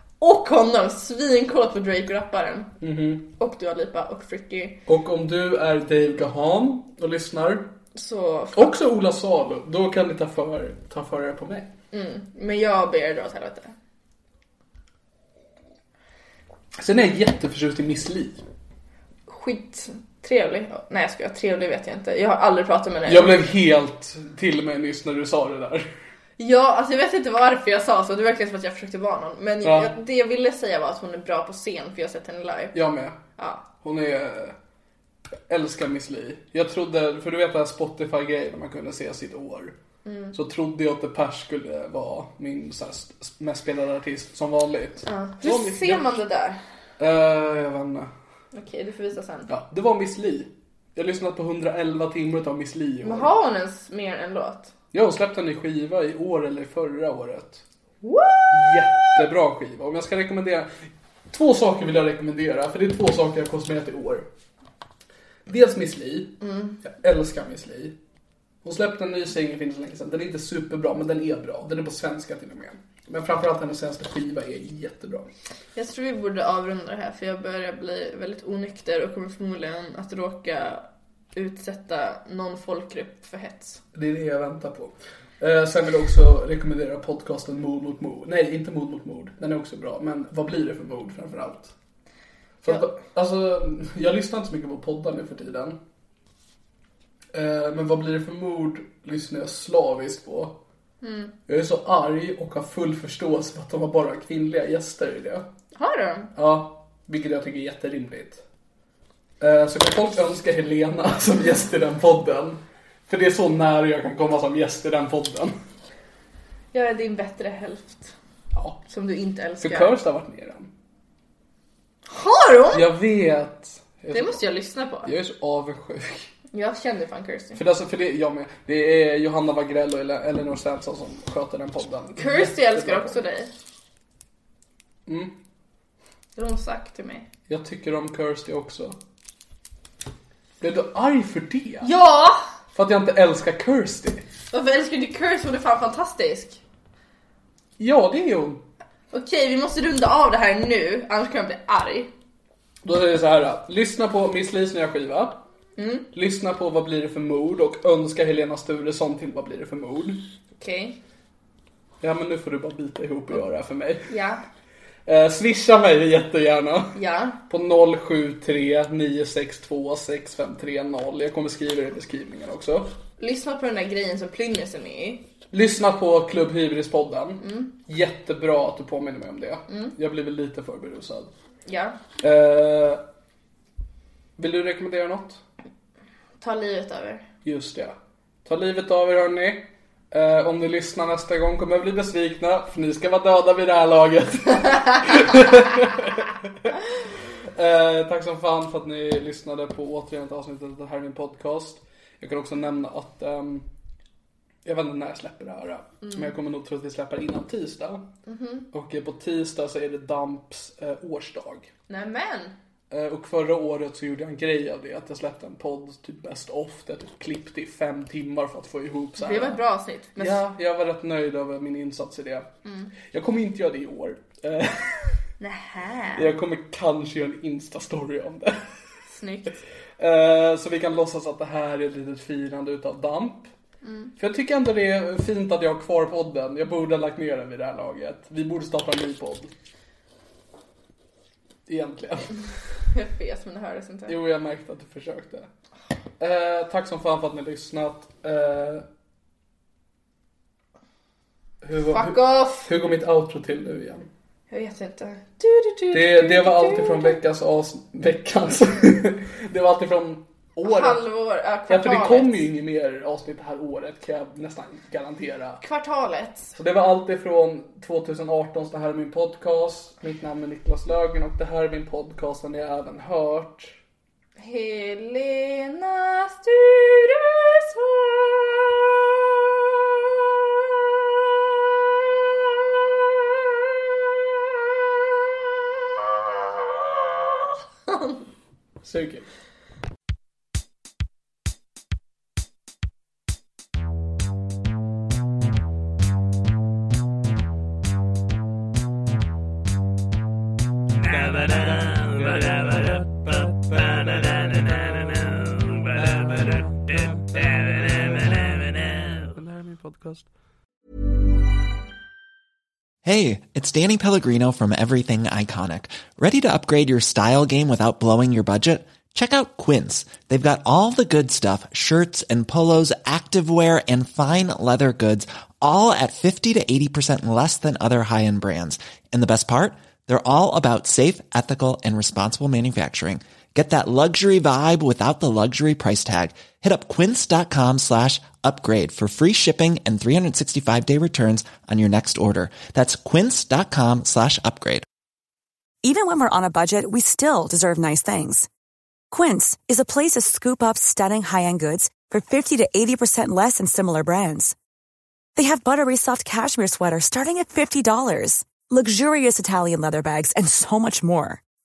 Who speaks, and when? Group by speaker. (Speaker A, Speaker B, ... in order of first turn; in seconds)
Speaker A: 0.2-2.7, 3.3-4.8, 7.9-8.7, 11.9-13.7, 19.3-23.4, 26.4-32.8, 33.4-33.6, 40.0-40.4, 45.0-46.6, 48.5-49.5, 53.0-54.7, 58.0-59.2, 66.4-66.8, 75.8-83.8, 101.0-101.3, 105.7-106.3, 116.7-118.1, 118.8-120.0, 122.1-122.9, 124.1-125.1, 126.5-127.6, 132.2-133.5, 136.3-137.3, 141.8-142.4, 144.5-146.6, 149.1-152.1, 155.8-156.1, 160.6-161.0, 164.1-164.4, 166.9-167.4, 173.2-175.2, 177.4-177.7, 179.7-179.9, 181.7-182.0, 186.4-187.2, 206.0-206.3, 208.2-208.7, 211.9-212.5, 219.2-220.4, 222.6-222.9, 225.4-226.3, 229.1-229.6, 233.8-234.1, 242.9-244.2, 251.8-252.7, 254.5-257.2, 260.6-262.5, 265.6-266.6, 274.4-278.7, 287.9-288.2
Speaker B: 2.8-3.3, 4.9-7.7, 8.5-11.7, 16.8-18.4, 23.1-25.9, 29.6-29.9, 32.7-33.2, 33.8-34.5, 35.5-39.8, 40.3-46.1, 47.0-48.1, 49.5-53.3, 54.9-57.6, 58.5-64.3, 65.5-68.0, 68.6-75.3, 83.9-91.7, 92.6-95.8, 97.3-100.6, 101.5-105.5, 106.3-108.4, 109.4-115.5, 118.5-118.8, 119.6-120.7, 122.7-124.5, 125.0-126.3, 127.5-133.2, 135.1-135.3, 137.5-139.0, 140.6-141.9, 142.7-144.2, 147.8-148.6, 152.8-155.4, 156.1-160.2, 162.0-164.1, 165.1-167.0, 167.5-172.9, 175.5-181.3, 182.2-183.0, 184.4-185.4, 187.4-196.7, 197.4-203.7, 204.6-208.1, 208.7-211.7, 212.9-219.6, 220.2-222.5, 223.0-225.2, 226.2-228.7, 230.0-233.5, 234.2-239.5, 241.7-242.3, 244.1-245.5, 246.2-248.8, 251.6-254.1, 255.9-261.0, 261.7-265.6, 266.6-273.8, 288.8-289.3, 301.0-310.3
Speaker C: 313.0-344.9
Speaker D: 345.8-348.5, 349.1-354.5, 355.4-361.4